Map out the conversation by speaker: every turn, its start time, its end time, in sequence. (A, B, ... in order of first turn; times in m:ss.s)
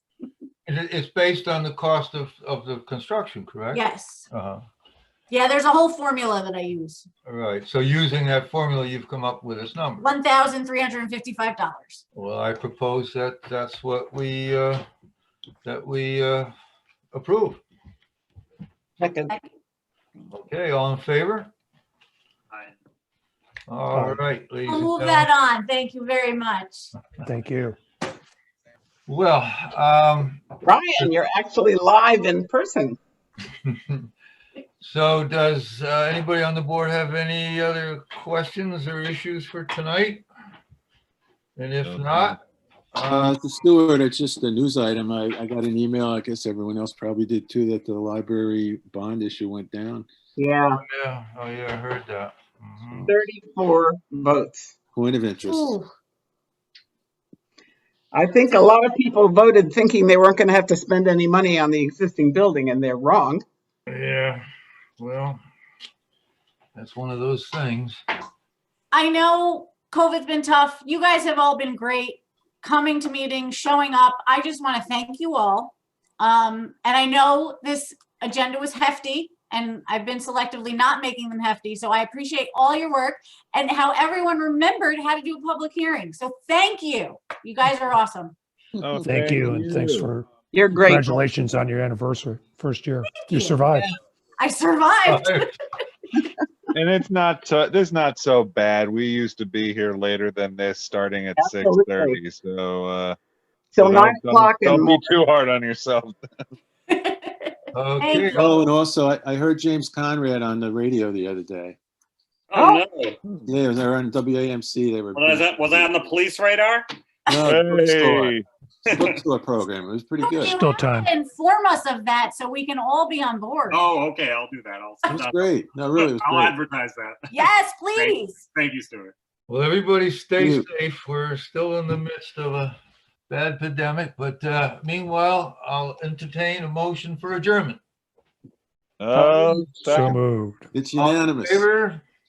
0:00.7-0:04.6 A
0:03.7-0:04.3 B
0:05.3-0:07.1 B
0:07.2-0:10.1 A
0:10.0-0:12.0 B
0:12.2-0:14.8 A
0:15.6-0:16.5 A
0:17.1-0:17.6 A
0:19.0-0:19.3 C
0:20.3-0:21.5 A
0:23.7-0:25.3 A
0:23.9-0:24.2 D
0:24.7-0:26.9 B
0:27.2-0:27.8 D
0:29.1-0:30.4 A
0:30.6-0:33.0 C
0:33.7-0:34.0 A
0:34.8-0:40.2 A
0:41.6-0:42.4 A
0:41.8-0:42.3 E
0:43.0-0:43.4 A
0:43.0-0:50.1 F
0:50.4-0:50.8 C
0:50.8-0:53.1 A
0:53.1-0:54.7 C
0:54.9-0:55.8 F
0:55.4-0:55.9 B
0:58.1-1:03.4 C
1:03.9-1:04.4 A
1:05.0-1:05.4 A
1:06.8-1:08.0 A
1:08.9-1:28.4 B
1:28.8-1:30.0 E
1:29.0-1:30.2 D
1:29.0-1:30.1 A
1:30.5-1:31.3 C
1:30.8-1:33.9 D
1:33.3-1:33.9 B
1:34.4-1:35.5 B
1:35.1-1:35.5 A
1:36.8-1:43.2 E
1:41.4-1:42.2 C
1:43.7-1:45.1 C
1:43.8-1:46.2 E
1:46.9-1:48.6 B
1:47.7-1:48.6 A
1:48.3-1:51.8 F
1:52.5-1:53.2 G
1:52.6-1:52.8 C
1:53.5-1:56.0 F
1:55.1-1:56.9 G
1:57.3-2:00.6 F
1:57.5-1:58.3 A
2:00.2-2:03.8 B
2:00.4-2:01.1 D
2:03.7-2:07.4 G
2:05.1-2:06.6 F
2:07.3-2:08.4 B
2:07.9-2:09.1 G
2:09.5-2:12.8 A
2:10.4-2:10.7 F
2:13.3-2:17.8 A
2:19.0-2:20.2 E
2:19.1-2:20.7 D
2:19.2-2:20.2 A
2:20.7-2:21.7 F
2:20.9-2:22.0 A